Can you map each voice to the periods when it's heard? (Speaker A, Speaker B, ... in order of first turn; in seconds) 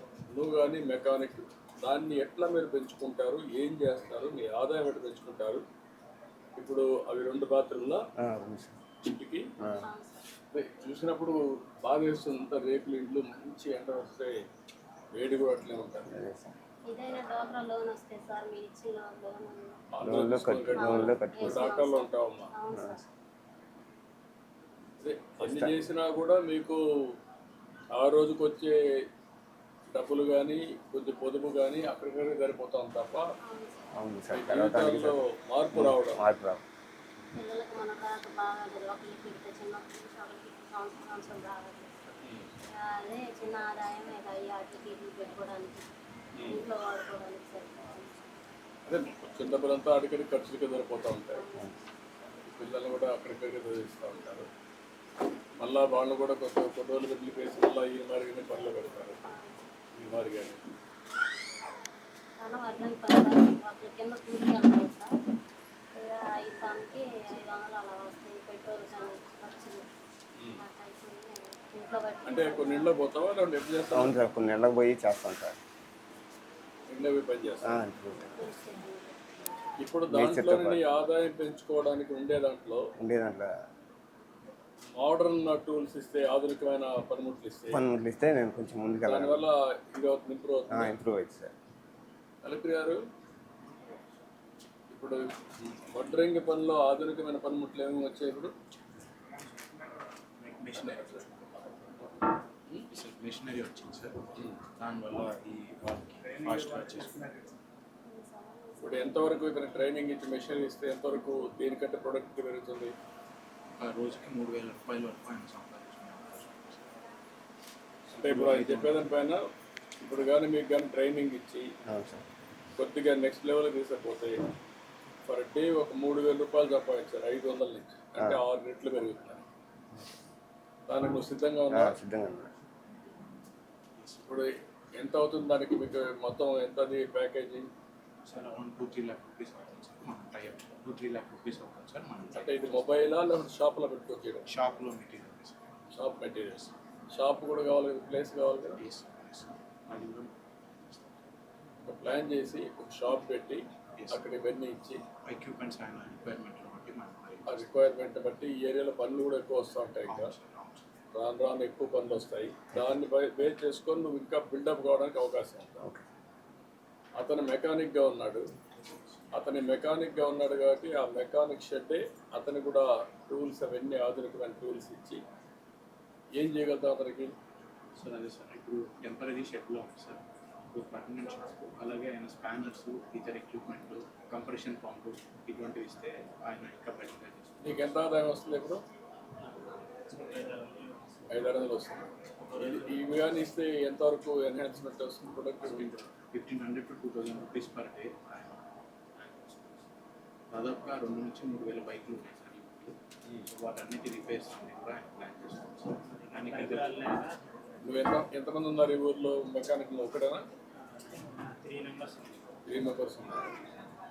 Speaker A: 0.3-5.6, 6.6-8.0, 9.1-9.5, 10.5-14.4, 15.2-16.1, 19.9-22.5, 25.0-26.8, 27.9-28.8, 29.9-33.2, 34.3-36.2, 42.2-42.5, 46.4-46.6, 48.9-51.4, 52.5-54.5, 55.6-59.2, 60.0-60.6, 70.4-70.6, 72.2-74.2, 76.9-77.8, 79.8-82.9, 85.0-87.8, 89.0-90.9, 92.4-93.0, 94.9-98.5, 108.8-112.9, 118.2-119.4, 120.0-121.7, 122.8-124.4, 125.3-129.4, 130.9-132.0, 134.2-137.7, 142.4-144.4, 145.9-148.8, 151.8-155.0, 157.5-160.3, 161.1-165.8, 167.2-168.5, 169.3-175.2, 176.4-177.3, 187.6-188.8, 191.3-196.0, 207.8-210.4, 212.7-213.5
Speaker B: 8.2-8.8, 9.6-9.9, 16.1-16.6, 20.0-21.7, 22.7-23.0, 25.4-25.7, 33.9-35.2, 35.7-36.6, 73.9-75.6, 77.6-78.5, 80.1-80.8, 83.0-83.5, 87.7-89.5, 90.7-91.5, 121.9-122.2, 131.7-132.5
Speaker C: 9.8-10.3, 16.9-19.8, 20.7-23.1, 33.5-33.9, 37.4-42.0, 42.7-45.9, 46.5-48.3, 51.3-51.7, 59.3-59.6, 62.4-65.1, 65.9-69.9, 70.5-72.9, 78.4-79.5, 108.0-109.1
Speaker D: 100.4-101.5, 102.9-104.2, 104.8-107.3, 113.8-116.9, 118.1-119.1, 134.0-134.4, 138.2-143.0, 144.5-145.6, 148.7-151.2, 154.0-154.2, 155.3-157.7, 160.1-160.8, 178.0-187.8, 195.6-198.6, 199.2-199.8, 200.5-207.1
Speaker E: 189.9-191.3, 192.5-193.0, 206.1-207.4, 210.8-212.5